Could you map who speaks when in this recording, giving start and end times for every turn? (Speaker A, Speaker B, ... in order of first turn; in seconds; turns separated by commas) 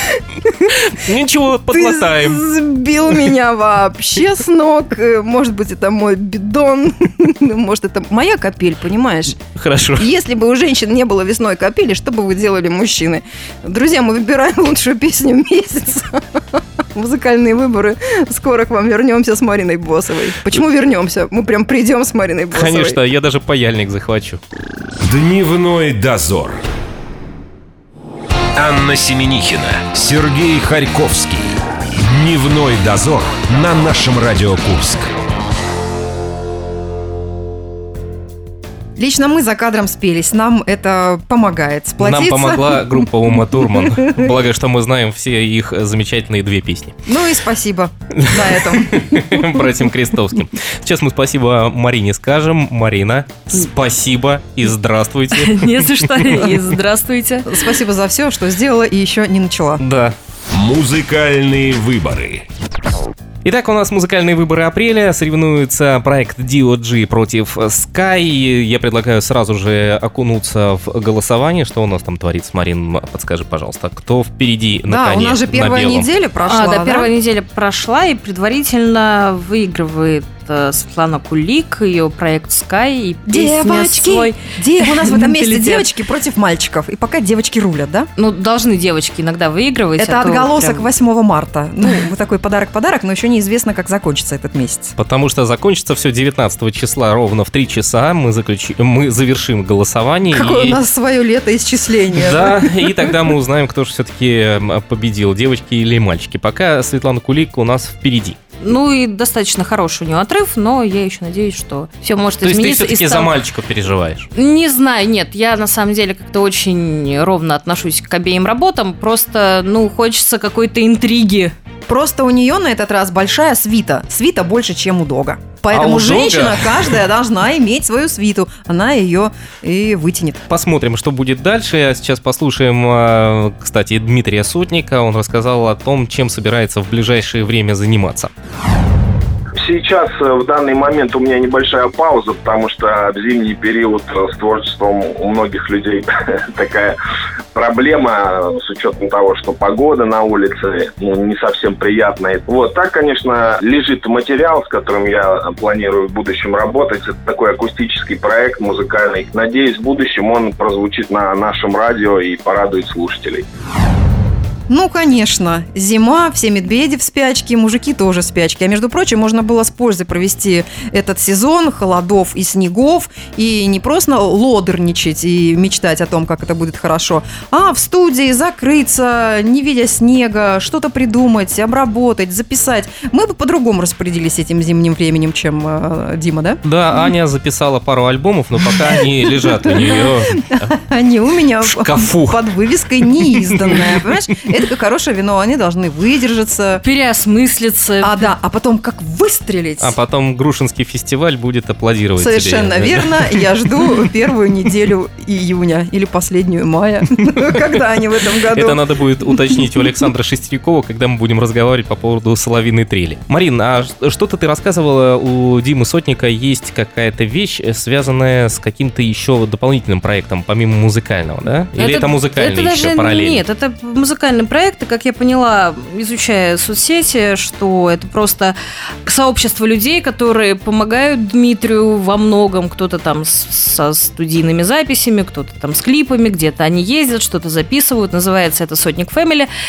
Speaker A: 0.7-2.4, Speaker B: 1.7-9.4, Speaker A: 9.6-10.1, Speaker B: 10.0-23.0, Speaker A: 22.5-24.4, Speaker C: 25.0-26.6, Speaker C: 28.6-35.1, Speaker B: 39.0-44.3, Speaker A: 42.0-46.9, Speaker B: 47.1-49.6, Speaker A: 48.2-56.6, Speaker D: 55.4-57.5, Speaker B: 57.5-59.8, Speaker A: 59.8-60.1, Speaker C: 60.5-62.5, Speaker A: 63.5-76.1, Speaker B: 74.9-77.1, Speaker D: 76.4-85.9, Speaker B: 83.3-88.1, Speaker D: 88.2-90.9, Speaker B: 90.0-95.0, Speaker A: 95.0-100.8, Speaker B: 100.3-103.1, Speaker A: 102.2-108.4, Speaker D: 108.6-113.3, Speaker A: 112.4-114.3, Speaker D: 114.3-121.5, Speaker B: 121.9-130.4, Speaker A: 125.7-127.0, Speaker A: 130.5-138.3, Speaker E: 139.6-147.0, Speaker E: 147.5-163.5, Speaker B: 164.7-186.6, Speaker A: 186.6-190.7, Speaker B: 188.8-196.8, Speaker A: 191.6-192.4, Speaker A: 193.4-194.0, Speaker D: 196.8-198.1, Speaker B: 198.0-199.9, Speaker A: 199.8-203.9, Speaker B: 202.2-208.8, Speaker A: 208.5-223.4, Speaker D: 221.8-239.5